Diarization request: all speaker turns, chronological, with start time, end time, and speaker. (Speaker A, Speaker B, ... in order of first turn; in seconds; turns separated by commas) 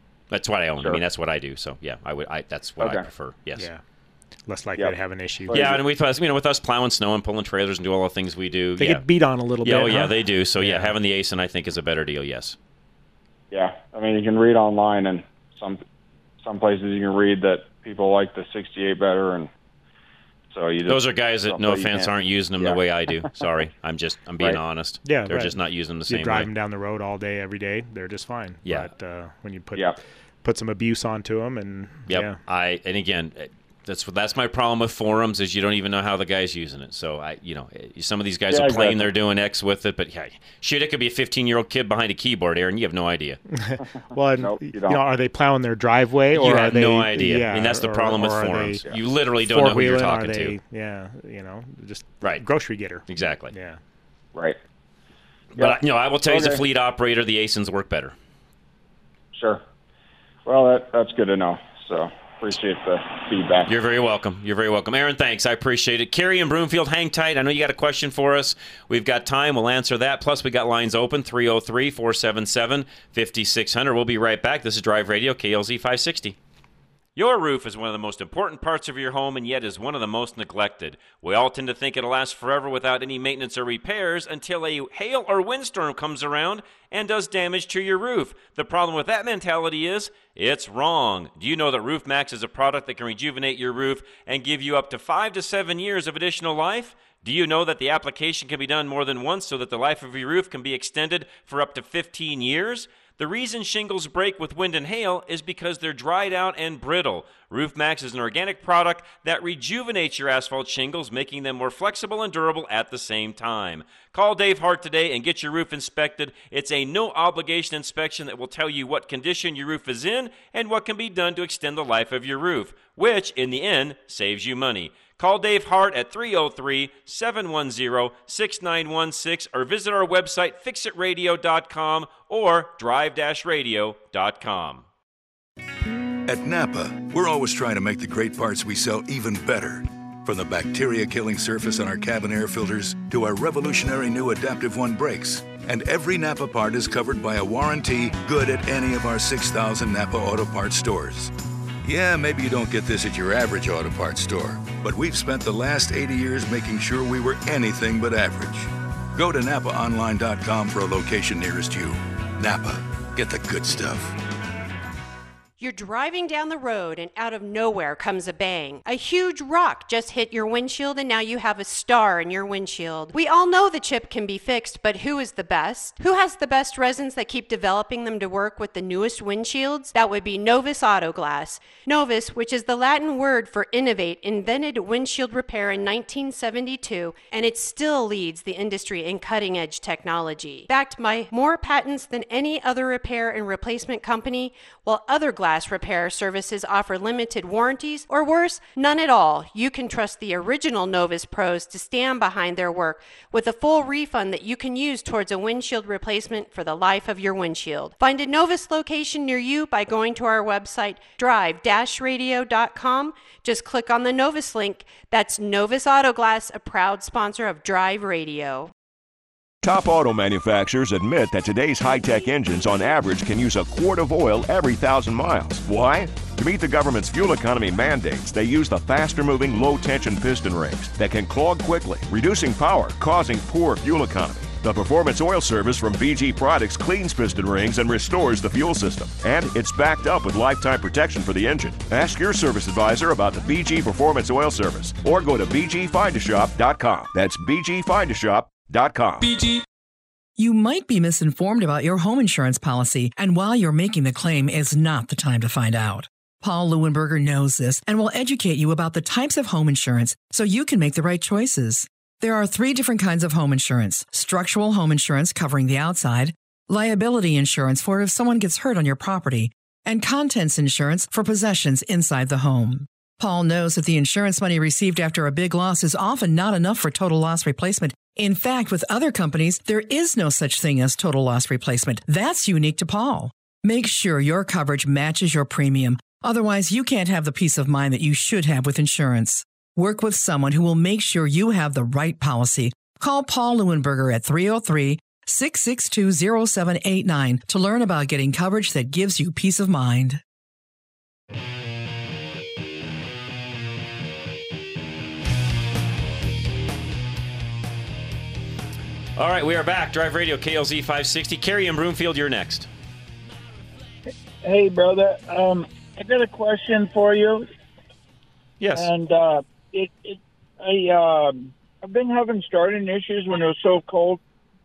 Speaker A: 0.3-3.7, Speaker B: 3.6-3.8, Speaker B: 4.5-5.6, Speaker C: 5.5-5.8, Speaker A: 5.5-9.0, Speaker B: 8.8-10.9, Speaker A: 9.6-12.6, Speaker C: 13.5-15.8, Speaker C: 16.4-19.5, Speaker C: 20.5-22.8, Speaker A: 20.9-26.5, Speaker B: 25.1-32.4, Speaker A: 32.1-43.4, Speaker C: 38.5-39.1, Speaker B: 43.5-48.8, Speaker C: 44.4-45.0, Speaker A: 46.3-50.5, Speaker B: 49.4-53.8, Speaker A: 53.1-53.5, Speaker A: 55.6-58.1, Speaker C: 55.6-56.6, Speaker C: 59.4-59.6, Speaker C: 60.5-63.7, Speaker A: 63.7-76.4, Speaker A: 77.2-134.8, Speaker D: 136.3-151.3, Speaker D: 151.8-164.2, Speaker E: 165.6-218.7, Speaker F: 219.6-249.5, Speaker G: 250.4-300.2, Speaker A: 309.2-312.7, Speaker H: 314.4-317.5, Speaker A: 318.6-318.9, Speaker H: 318.8-324.2